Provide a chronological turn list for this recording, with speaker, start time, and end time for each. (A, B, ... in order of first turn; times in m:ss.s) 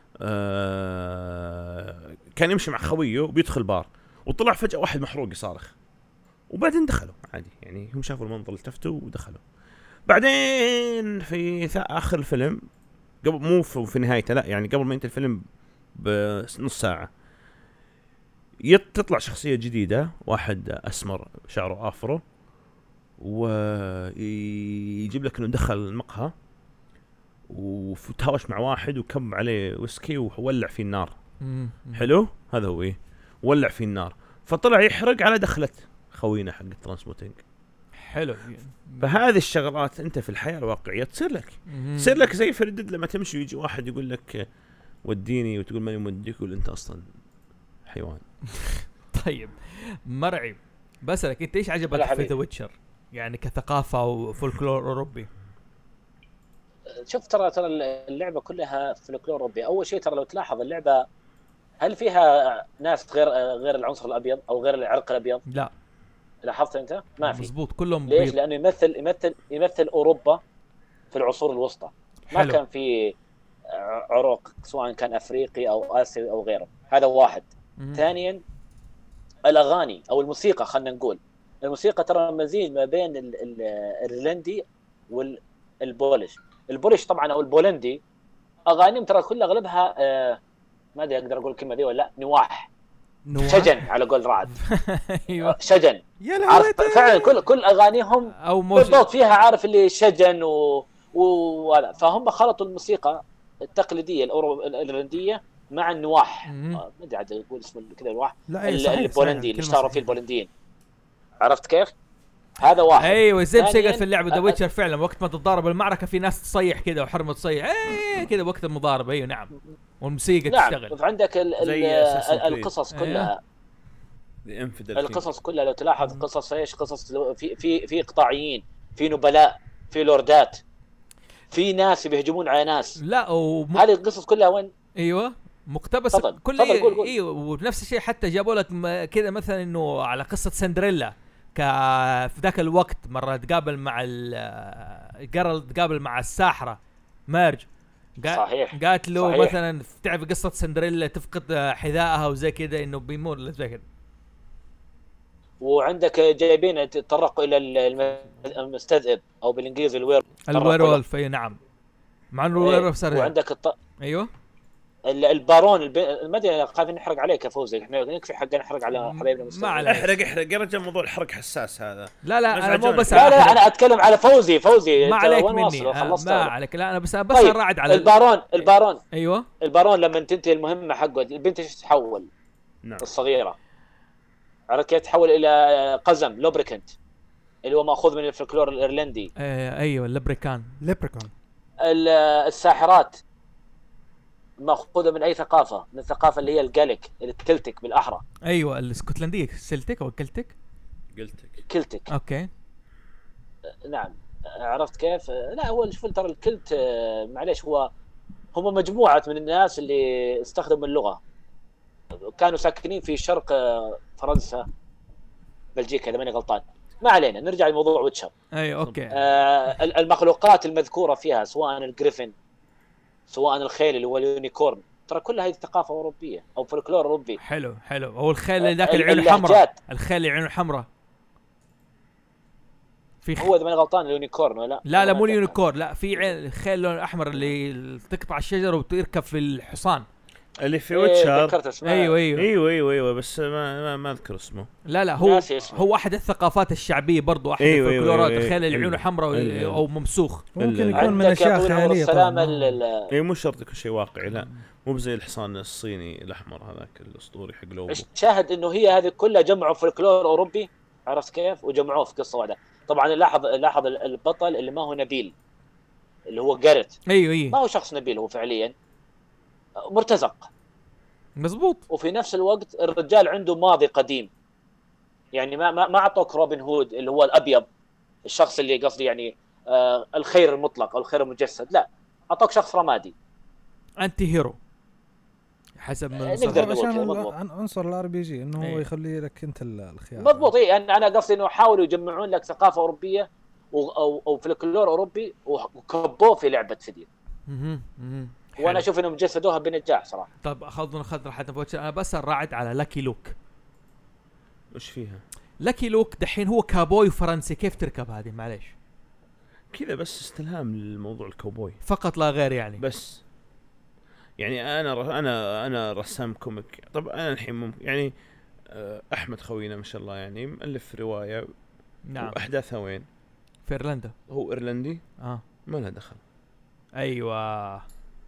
0:00.2-0:05.7 A
0:06.5-0:09.4 A
0:10.1-0:12.6 A
0:13.2-0:15.4 A
0:15.9-0:17.1 A
0:18.7-0:22.2 A
0:23.2-0:26.3 A
0:27.5-0:31.1 A
0:31.4-0:32.1 B
0:31.9-0:37.4 A
0:38.0-0:39.2 B
0:39.0-0:44.4 A
0:41.7-0:42.2 B
0:45.0-0:47.0 A
0:47.9-0:48.2 A
0:48.5-0:55.3 B
0:51.9-0:52.3 C
0:57.0-1:01.0 C
1:01.8-1:05.4 C
1:06.4-1:07.5 C
1:07.2-1:08.4 B
1:08.1-1:10.4 C
1:11.1-1:13.1 C
1:12.3-1:12.6 B
1:13.7-1:18.4 C
1:17.8-1:18.0 B
1:19.4-1:28.0 C
1:28.6-1:30.4 C
1:31.0-1:32.7 C
1:33.2-1:33.8 D
1:33.4-1:34.5 C
1:34.5-1:35.6 B
1:35.4-1:50.5 C
1:36.2-1:37.4 D
1:38.4-1:39.0 B
1:46.5-1:46.8 B
1:48.5-1:50.1 D
1:51.4-1:51.9 C
1:52.6-1:54.6 C
1:53.0-2:00.9 B
2:00.5-2:03.4 C
2:01.6-2:02.7 A
2:02.9-2:03.3 B
2:04.4-2:05.2 A
2:05.0-2:10.6 C
2:11.5-2:13.0 C
2:13.0-2:13.8 B
2:13.7-2:14.7 C
2:15.0-2:27.6 B
2:16.1-2:17.1 C
2:28.2-2:33.8 B
2:28.3-2:29.5 C
2:35.6-2:41.0 C
2:40.5-2:41.6 B
2:42.3-2:43.3 B
2:42.6-2:43.8 C
2:44.0-2:44.3 B
2:45.1-2:50.1 C
2:48.9-2:50.1 B
2:49.8-2:53.6 A
2:52.2-2:53.6 B
2:53.1-2:56.5 C
2:55.0-2:59.5 B
2:57.3-2:59.0 C
2:59.6-3:02.3 C
3:03.0-3:03.6 C
3:04.7-3:06.9 C
3:07.6-3:09.3 C
3:09.4-3:10.7 B
3:10.8-3:11.3 D
3:11.8-3:13.2 C
3:14.6-3:18.2 C
3:18.4-3:20.5 B
3:21.1-3:21.6 A
3:21.7-3:22.1 C
3:22.1-3:22.5 B
3:23.8-3:27.9 C
3:28.5-3:31.2 C
3:32.3-3:34.6 C
3:35.8-3:38.3 C
3:38.5-3:39.2 B
3:39.1-3:42.3 C
3:43.3-3:47.4 C
3:47.4-3:50.9 B
3:48.6-3:49.7 C
3:53.2-3:53.5 B
3:53.4-3:55.6 C
3:54.8-4:00.0 B
4:00.6-4:01.6 A
4:00.9-4:02.2 C
4:01.8-4:02.5 B
4:02.4-4:04.7 A
4:04.9-4:10.4 B
4:05.2-4:05.8 C
4:07.6-4:09.8 A
4:10.6-4:12.8 E
4:10.6-4:11.2 A
4:10.9-4:13.1 C
4:13.1-4:18.0 A
4:17.9-4:25.3 C
4:26.3-4:27.0 C
4:27.1-4:27.6 B
4:27.5-4:28.7 C
4:29.9-4:30.5 C
4:31.4-4:31.8 B
4:31.9-4:34.3 C
4:35.3-4:37.6 C
4:38.2-4:43.1 C
4:44.0-4:44.6 B
4:45.8-4:46.7 B
4:46.3-4:47.3 C
4:46.4-4:50.5 E
4:48.6-4:48.8 B
4:50.2-4:57.1 C
4:57.5-4:58.8 B
4:58.6-5:00.3 C
5:00.4-5:03.3 B
5:04.7-5:05.2 A
5:05.6-5:08.7 B
5:09.7-5:11.8 A
5:11.8-5:12.8 B
5:12.8-5:13.2 A
5:14.4-5:18.1 A
5:18.7-5:21.5 A
5:22.1-5:22.4 B
5:22.2-5:23.0 A
5:23.6-5:24.1 B
5:24.3-5:25.0 A
5:25.7-5:26.2 A
5:27.0-5:27.8 B